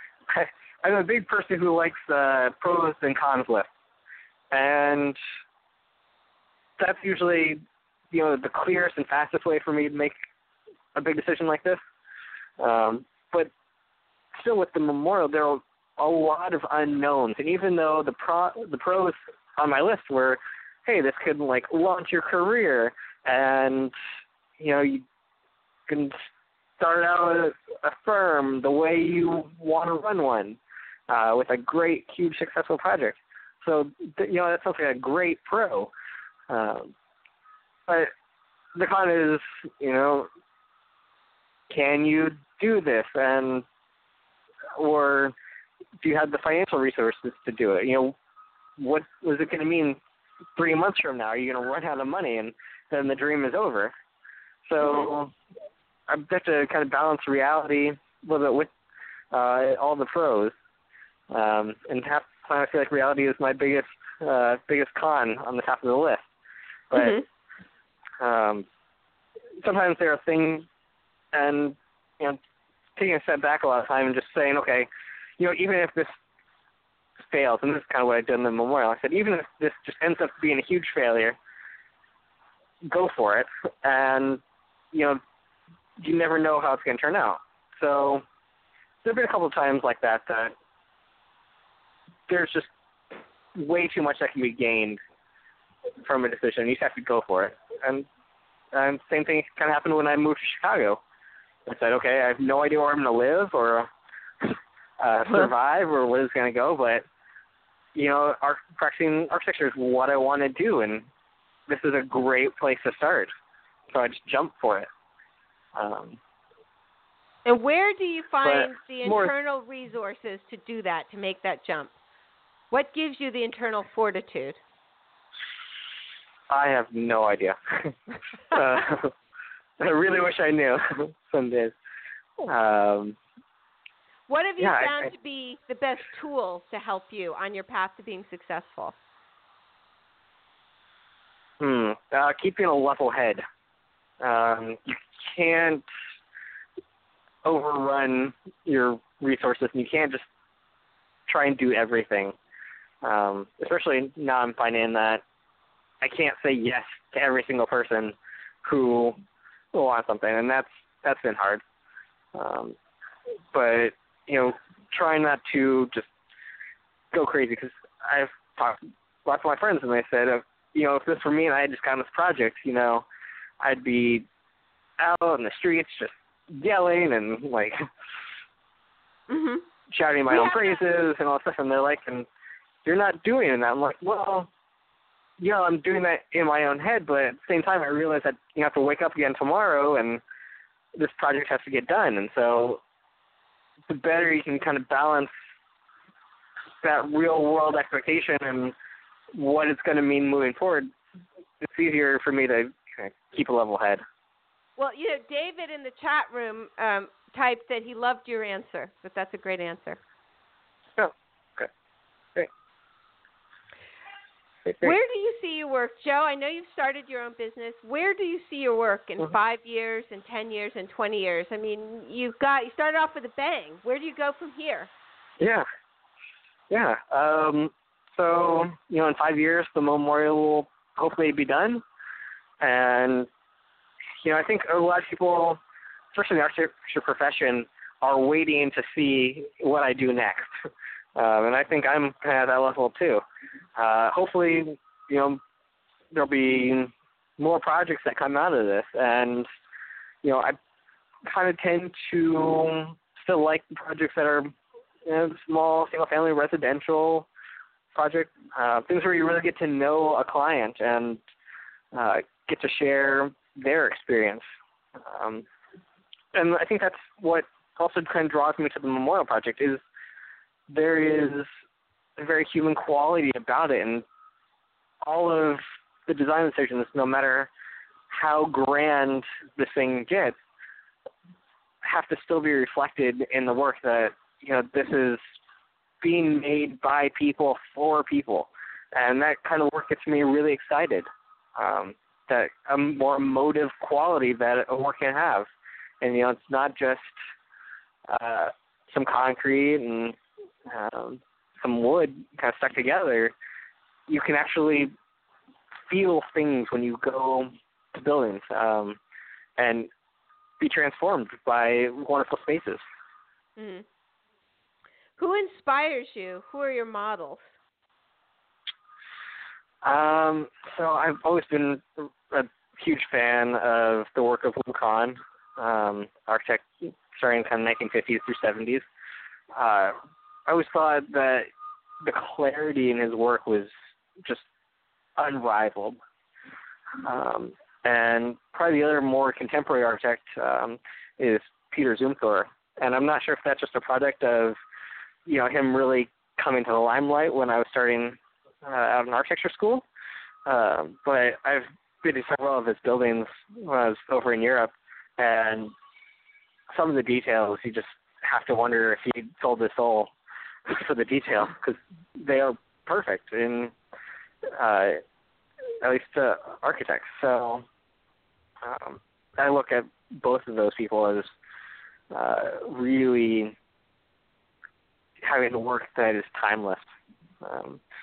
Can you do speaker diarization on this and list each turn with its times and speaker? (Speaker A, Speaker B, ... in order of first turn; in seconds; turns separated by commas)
Speaker A: 0.3-3.7, Speaker A: 4.5-5.2, Speaker A: 6.8-10.1, Speaker A: 10.9-11.8, Speaker A: 12.6-13.5, Speaker A: 14.3-23.9, Speaker A: 24.6-25.0, Speaker A: 25.9-26.1, Speaker A: 26.8-30.6, Speaker A: 31.1-35.9, Speaker A: 36.5-36.9, Speaker A: 38.8-40.3, Speaker A: 41.7-43.6, Speaker A: 44.7-45.3, Speaker A: 46.0-48.1, Speaker A: 48.8-50.0, Speaker A: 50.5-53.9, Speaker A: 54.7-55.3, Speaker A: 56.1-58.7, Speaker A: 59.3-60.5, Speaker A: 61.3-66.3, Speaker A: 66.9-67.2, Speaker B: 67.0-67.2, Speaker A: 68.2-68.6, Speaker A: 69.6-70.7, Speaker A: 71.3-72.4, Speaker A: 73.0-74.9, Speaker A: 75.4-76.1, Speaker A: 77.3-81.4, Speaker A: 82.9-84.4, Speaker A: 84.9-85.2, Speaker A: 86.0-88.2, Speaker A: 89.0-90.5, Speaker A: 92.3-95.0, Speaker A: 96.0-98.0, Speaker A: 98.7-101.0, Speaker A: 101.7-103.9, Speaker A: 104.4-107.0, Speaker A: 108.0-111.1, Speaker A: 111.7-113.3, Speaker A: 113.9-114.9, Speaker A: 115.8-116.2, Speaker B: 117.5-121.9, Speaker A: 118.4-119.3, Speaker B: 122.7-124.6, Speaker A: 126.5-128.0, Speaker A: 128.5-129.1, Speaker A: 129.8-131.7, Speaker A: 132.4-133.2, Speaker B: 134.3-138.9, Speaker A: 134.6-135.1, Speaker A: 141.6-143.4, Speaker A: 144.2-145.8, Speaker A: 147.4-150.2, Speaker A: 151.3-152.3, Speaker A: 153.0-155.2, Speaker A: 156.0-159.2, Speaker A: 159.7-161.6, Speaker A: 162.3-162.7, Speaker A: 163.5-166.1, Speaker A: 167.1-173.0, Speaker A: 173.6-174.3, Speaker A: 175.0-177.9, Speaker B: 179.3-179.6, Speaker A: 179.9-182.3, Speaker B: 180.3-180.7, Speaker A: 182.8-184.5, Speaker A: 185.4-190.2, Speaker A: 190.9-192.8, Speaker A: 193.9-195.3, Speaker A: 196.8-198.7, Speaker A: 199.3-200.9, Speaker A: 201.6-204.0, Speaker B: 204.8-210.0, Speaker A: 211.0-211.7, Speaker A: 214.7-214.9, Speaker B: 214.8-224.9, Speaker A: 225.4-225.7, Speaker A: 226.7-231.8, Speaker A: 232.6-233.3, Speaker A: 234.2-235.6, Speaker A: 236.1-240.5, Speaker A: 241.2-243.2, Speaker A: 243.8-245.4, Speaker A: 246.1-249.4, Speaker A: 250.2-250.6, Speaker A: 251.3-254.5, Speaker A: 255.1-257.3, Speaker A: 257.9-261.2, Speaker A: 261.9-264.4, Speaker A: 265.1-265.4, Speaker A: 266.3-269.8, Speaker A: 270.7-271.5, Speaker A: 272.2-274.0, Speaker A: 275.0-277.5, Speaker A: 278.1-280.4, Speaker A: 281.8-285.2, Speaker A: 286.0-295.5, Speaker A: 296.0-297.1, Speaker A: 298.1-300.2, Speaker A: 300.7-303.3, Speaker A: 304.1-304.9, Speaker A: 305.9-309.0, Speaker A: 309.6-309.9, Speaker A: 310.6-312.8, Speaker B: 313.6-313.9, Speaker B: 315.2-317.5, Speaker A: 319.8-328.9, Speaker A: 329.5-329.9, Speaker A: 330.5-331.5, Speaker A: 332.0-333.7, Speaker A: 335.2-336.0, Speaker A: 337.0-344.6, Speaker A: 345.3-349.9, Speaker A: 350.4-355.7, Speaker A: 356.7-360.1, Speaker A: 360.7-363.7, Speaker A: 364.5-365.0, Speaker A: 365.8-367.6, Speaker A: 368.6-371.3, Speaker A: 372.1-373.5, Speaker A: 375.2-376.9, Speaker A: 377.4-377.8